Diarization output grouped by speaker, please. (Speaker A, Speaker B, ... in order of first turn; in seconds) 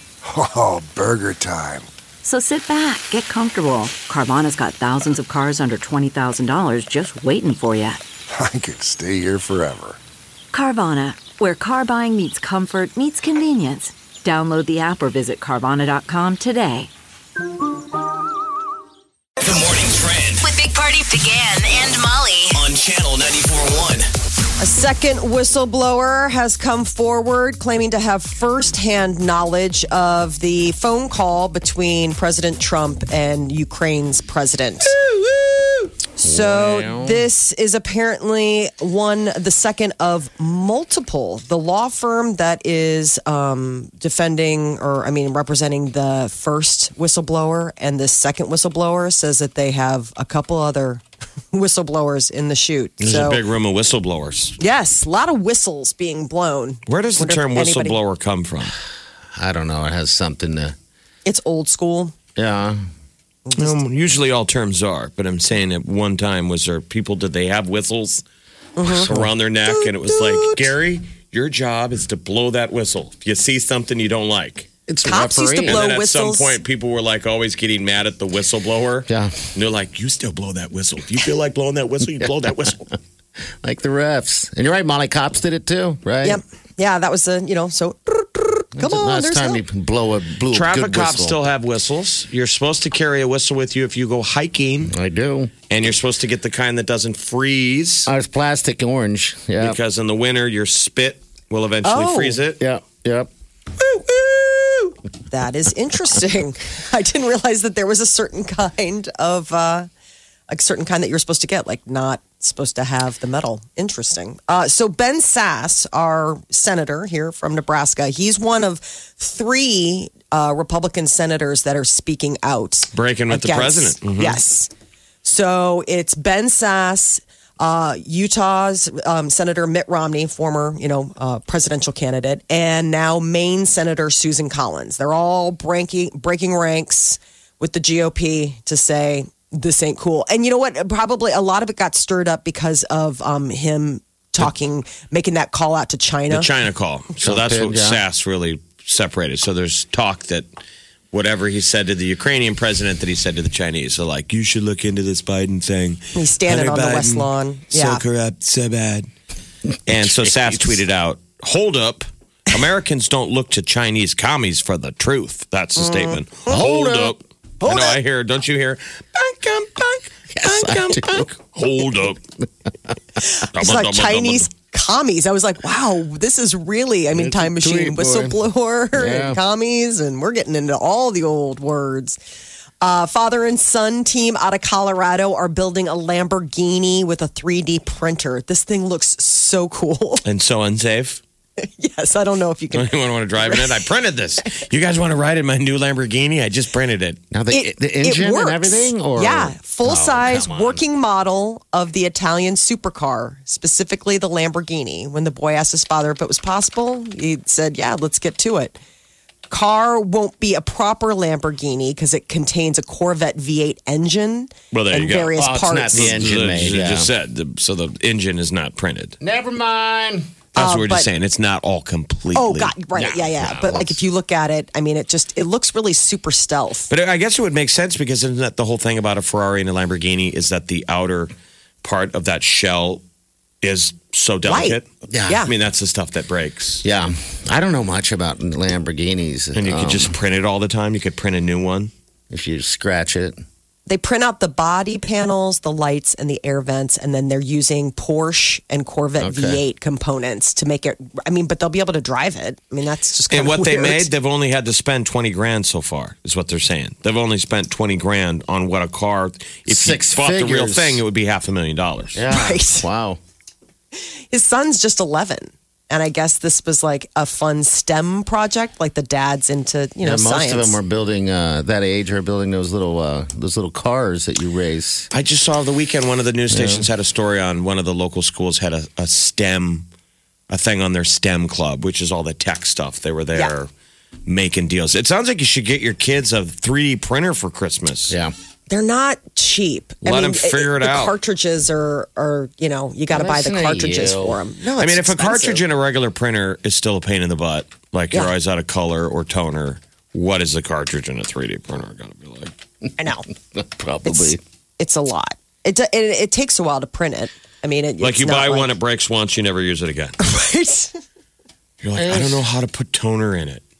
Speaker A: 0.2-1.9, 8.3-10.0
Speaker B: 2.2-8.0, 10.5-16.9
Speaker C: 19.4-20.5, 22.5-24.1
Speaker D: 20.4-22.6
Speaker E: 24.6-34.9, 36.2-53.4, 54.6-58.0, 61.2-62.1, 63.5-63.8, 68.8-69.1, 69.7-70.5, 75.0-76.6, 86.2-89.6, 101.8-102.4, 105.3-109.9, 110.5-124.7, 125.2-146.5, 156.1-158.0, 167.6-168.0, 173.2-182.2, 182.8-190.2, 191.6-193.8, 197.5-208.8, 209.5-216.1, 220.5-221.1, 222.3-226.9, 234.4-235.5, 243.8-254.1, 262.3-262.9, 263.9-270.8, 288.7-295.6, 303.0-303.3, 304.0-308.7, 310.2-311.0
Speaker F: 36.2-37.3, 59.4-60.7, 62.4-62.8, 68.9-69.3, 74.9-75.8, 79.1-79.5, 83.6-86.4, 88.8-91.4, 94.9-95.5, 98.0-99.8, 102.6-103.3, 147.2-148.0, 166.5-167.2, 170.4-171.3, 177.1-178.4, 178.9-179.4, 197.3-200.8, 215.3-217.1, 219.2-220.3, 222.9-224.0, 235.1-235.5, 236.8-240.1, 242.3-243.3, 249.2-249.6, 259.7-261.0, 262.1-263.2, 270.0-275.1, 276.5-276.9, 293.1-294.4, 303.5-304.4, 311.9-312.4
Speaker G: 53.0-54.5, 56.9-58.8, 63.5-68.2, 68.9-74.7, 75.6-82.9, 90.5-95.0, 95.7-98.1, 99.6-102.6, 122.9-124.4, 146.3-150.5, 151.1-159.1, 159.8-172.2, 173.5-174.5, 190.2-191.2, 192.7-197.2, 214.7-215.3, 215.9-219.2, 220.6-222.7, 226.9-231.3, 231.8-233.0, 233.6-234.8, 235.4-236.8, 239.5-241.9, 253.3-262.2, 275.1-279.9, 280.5-283.7, 284.2-288.1, 290.0-291.1, 294.8-302.5, 308.0-310.1, 311.8-313.6